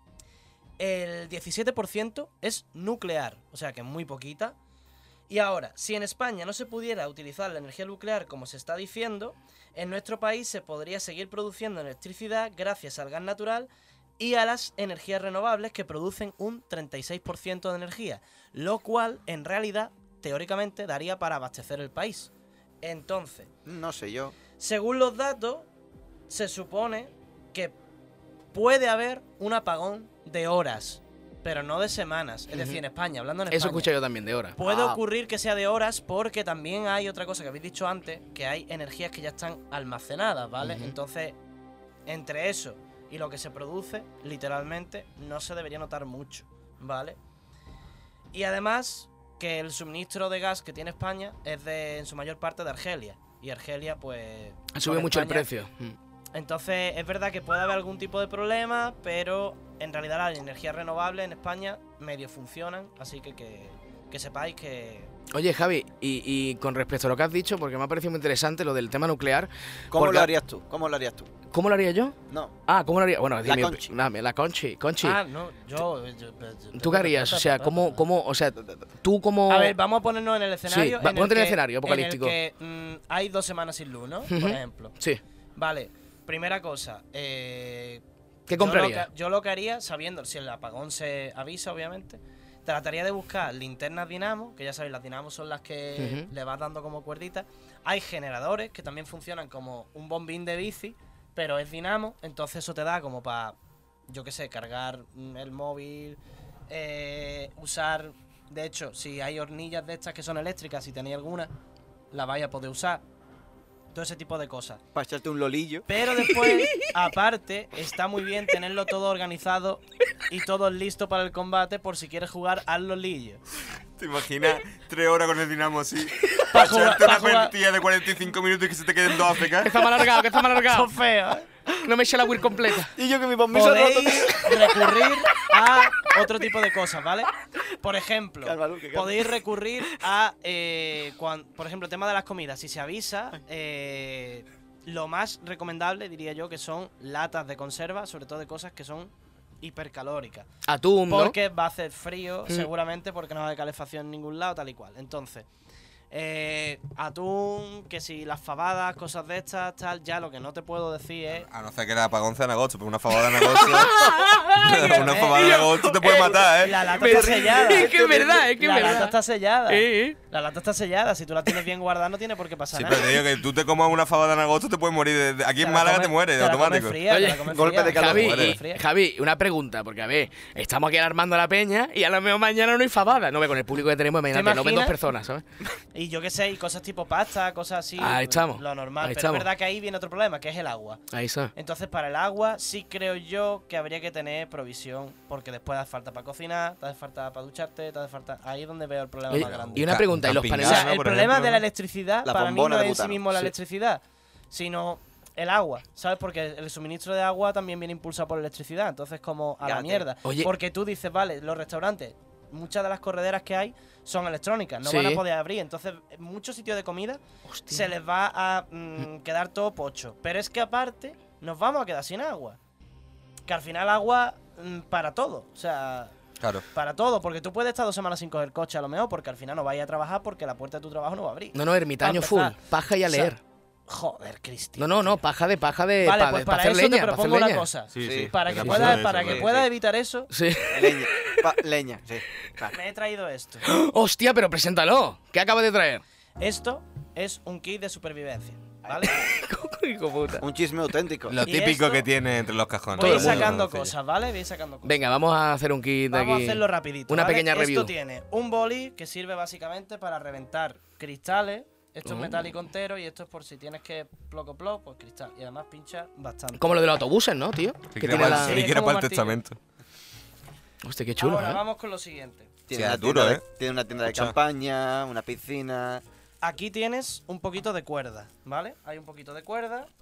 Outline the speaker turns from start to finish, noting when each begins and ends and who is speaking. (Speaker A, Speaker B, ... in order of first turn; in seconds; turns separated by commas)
Speaker A: 0.8-4.6, Speaker A: 5.3-22.3, Speaker A: 22.8-23.5, Speaker B: 23.6-24.4, Speaker A: 24.6-25.6, Speaker A: 26.3-27.8, Speaker A: 28.5-33.9, Speaker C: 32.5-32.8, Speaker C: 33.5-34.6, Speaker A: 34.6-41.4, Speaker B: 34.6-35.0, Speaker C: 40.6-40.9, Speaker A: 42.1-47.2, Speaker A: 48.3-55.5, Speaker C: 54.7-56.0, Speaker A: 56.3-65.1, Speaker C: 65.3-70.3, Speaker B: 69.9-71.3, Speaker C: 71.5-72.1, Speaker C: 72.7-75.2, Speaker B: 73.4-73.9, Speaker A: 75.0-78.0, Speaker C: 76.8-79.8, Speaker B: 78.6-78.8, Speaker A: 79.5-84.9, Speaker C: 80.7-82.4, Speaker C: 84.3-85.2, Speaker A: 85.6-103.5, Speaker C: 88.5-89.1, Speaker C: 96.0-96.3, Speaker A: 104.1-106.2, Speaker A: 106.7-111.5, Speaker A: 112.1-113.0, Speaker A: 113.9-114.8, Speaker B: 114.9-115.9, Speaker A: 115.9-123.4, Speaker C: 116.2-116.9, Speaker D: 124.0-129.8, Speaker A: 126.5-127.5, Speaker C: 129.6-130.9, Speaker A: 130.5-131.5, Speaker C: 131.8-132.9, Speaker B: 132.9-134.8, Speaker A: 133.5-150.5, Speaker B: 138.4-139.3, Speaker C: 150.7-151.3, Speaker A: 151.1-155.5, Speaker A: 156.1-161.5, Speaker D: 161.3-166.9, Speaker C: 163.3-169.2, Speaker A: 164.7-165.6, Speaker A: 166.5-173.2, Speaker B: 167.0-168.5, Speaker C: 169.7-170.2, Speaker D: 172.7-177.0, Speaker A: 175.6-178.8, Speaker C: 177.1-185.4, Speaker B: 177.5-178.4, Speaker D: 178.1-178.6, Speaker A: 184.3-185.0, Speaker A: 185.9-191.0, Speaker C: 188.0-189.5, Speaker C: 191.1-191.5, Speaker A: 191.6-199.9, Speaker C: 199.3-200.9, Speaker D: 199.3-201.6, Speaker A: 200.6-222.6, Speaker B: 202.2-203.2, Speaker B: 209.6-210.1, Speaker C: 210.2-210.5, Speaker C: 214.8-215.2, Speaker C: 217.5-217.9, Speaker A: 223.5-226.1, Speaker A: 226.7-232.6, Speaker C: 231.5-233.4, Speaker A: 233.1-233.4, Speaker A: 233.9-235.2, Speaker C: 234.8-237.7, Speaker A: 236.0-240.3, Speaker D: 237.9-239.6, Speaker B: 238.0-239.6, Speaker C: 238.6-239.0, Speaker C: 240.3-241.4, Speaker B: 240.7-242.8, Speaker A: 242.7-243.6, Speaker C: 243.6-246.0, Speaker A: 246.4-249.2, Speaker B: 248.9-249.1, Speaker C: 249.1-250.5, Speaker B: 250.4-251.4, Speaker D: 251.3-253.9, Speaker A: 251.4-252.1, Speaker A: 252.9-255.0, Speaker C: 253.0-253.6, Speaker C: 254.8-257.9, Speaker A: 256.1-266.8, Speaker C: 262.1-262.5, Speaker C: 266.6-268.6, Speaker D: 267.9-269.6, Speaker A: 268.1-269.4, Speaker C: 270.8-271.6, Speaker A: 271.2-272.5, Speaker B: 272.7-276.0, Speaker D: 272.7-273.4, Speaker D: 274.1-274.4, Speaker A: 276.4-279.9